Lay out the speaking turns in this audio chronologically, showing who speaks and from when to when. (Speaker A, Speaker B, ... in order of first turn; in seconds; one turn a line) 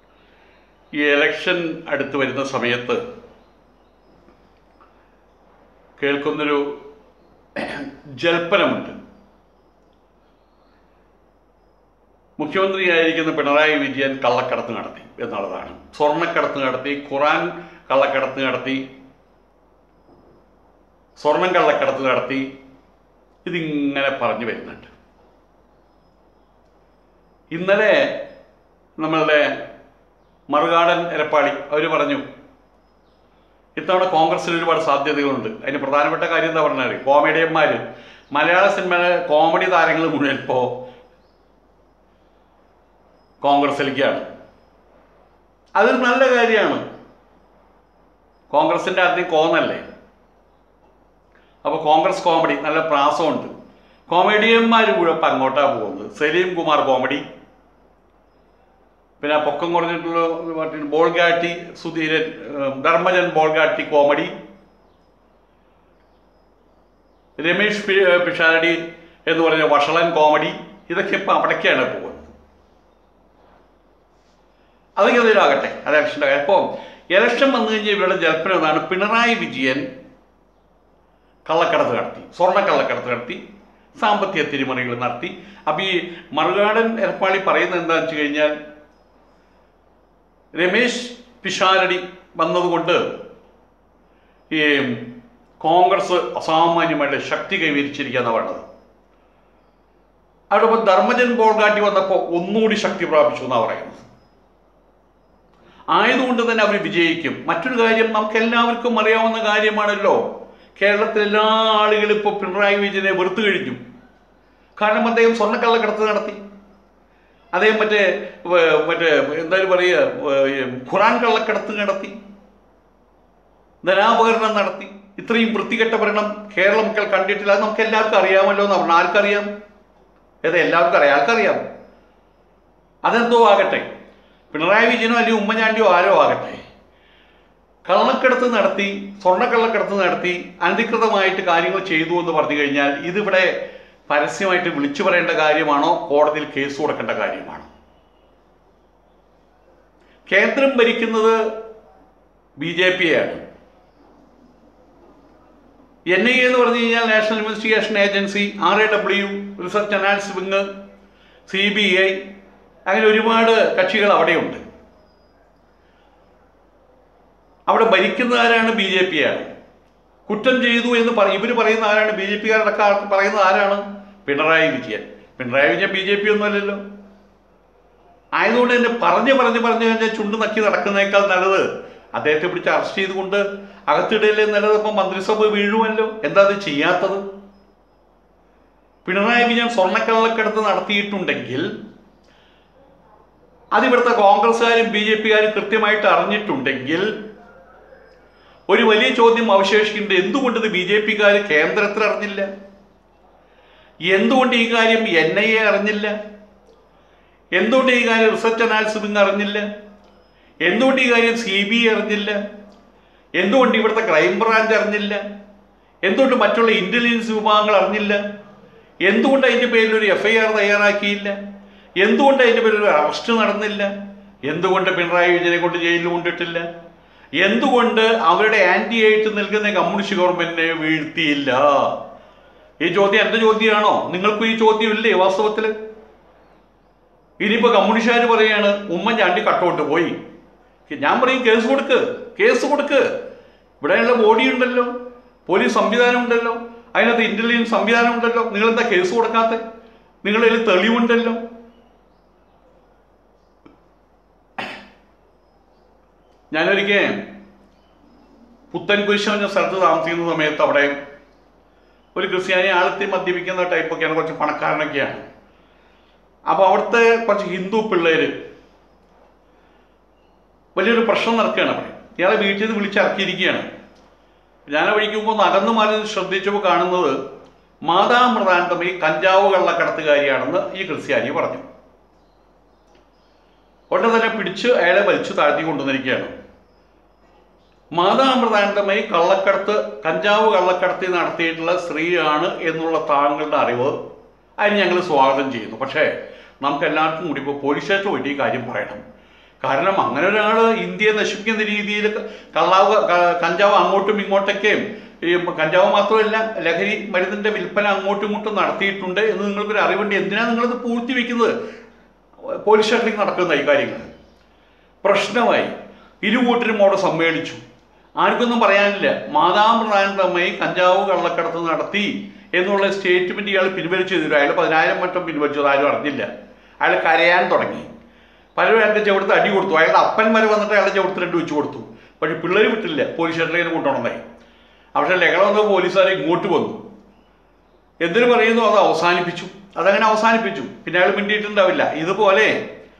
Speaker A: 1.0-3.0
Speaker A: 6.0-6.7
Speaker A: 7.5-8.9
Speaker A: 12.4-18.8
Speaker A: 21.2-22.4
Speaker A: 23.4-24.9
Speaker A: 27.5-28.2
Speaker A: 29.0-29.6
Speaker A: 30.5-32.2
Speaker A: 33.8-37.8
Speaker A: 38.3-40.7
Speaker A: 43.4-44.2
Speaker A: 45.8-46.8
Speaker A: 48.5-49.8
Speaker A: 51.6-53.5
Speaker A: 54.1-57.2
Speaker A: 59.2-64.3
Speaker A: 67.4-72.3
Speaker A: 75.0-79.8
Speaker A: 81.5-83.4
Speaker A: 84.0-88.5
Speaker A: 90.5-93.0
Speaker A: 94.5-95.1
Speaker A: 95.6-98.6
Speaker A: 100.5-104.0
Speaker A: 105.9-110.2
Speaker A: 110.8-113.8
Speaker A: 114.8-116.4
Speaker A: 117.5-122.1
Speaker A: 123.8-129.5
Speaker A: 130.4-131.6
Speaker A: 133.0-133.8
Speaker A: 134.5-136.6
Speaker A: 137.8-143.5
Speaker A: 144.1-147.7
Speaker A: 150.3-151.4
Speaker A: 152.6-153.4
Speaker A: 156.1-160.6
Speaker A: 161.5-162.2
Speaker A: 162.9-164.6
Speaker A: 167.7-169.5
Speaker A: 170.3-176.8
Speaker A: 178.4-181.6
Speaker A: 182.2-187.2
Speaker A: 189.0-191.7
Speaker A: 193.7-197.1
Speaker A: 198.7-202.5
Speaker A: 204.1-206.1
Speaker A: 207.6-209.7
Speaker A: 210.6-212.4
Speaker A: 213.4-215.2
Speaker A: 216.0-218.2
Speaker A: 219.0-221.4
Speaker A: 222.0-223.9
Speaker A: 224.5-226.7
Speaker A: 227.4-231.9
Speaker A: 232.8-235.7
Speaker A: 237.4-240.1
Speaker A: 240.9-243.1
Speaker A: 243.8-244.9
Speaker A: 245.5-249.6
Speaker A: 250.2-251.4
Speaker A: 256.5-257.1
Speaker A: 258.7-260.9
Speaker A: 262.1-265.2
Speaker A: 266.5-268.3
Speaker A: 270.7-273.6
Speaker A: 274.7-277.1
Speaker A: 277.9-281.6
Speaker A: 283.9-286.3
Speaker A: 287.9-293.9
Speaker A: 294.6-299.0
Speaker A: 299.6-311.5
Speaker A: 312.6-314.1
Speaker A: 315.0-317.6
Speaker A: 318.2-326.3
Speaker A: 326.8-327.9
Speaker A: 328.6-334.2
Speaker A: 334.9-336.8
Speaker A: 338.0-342.6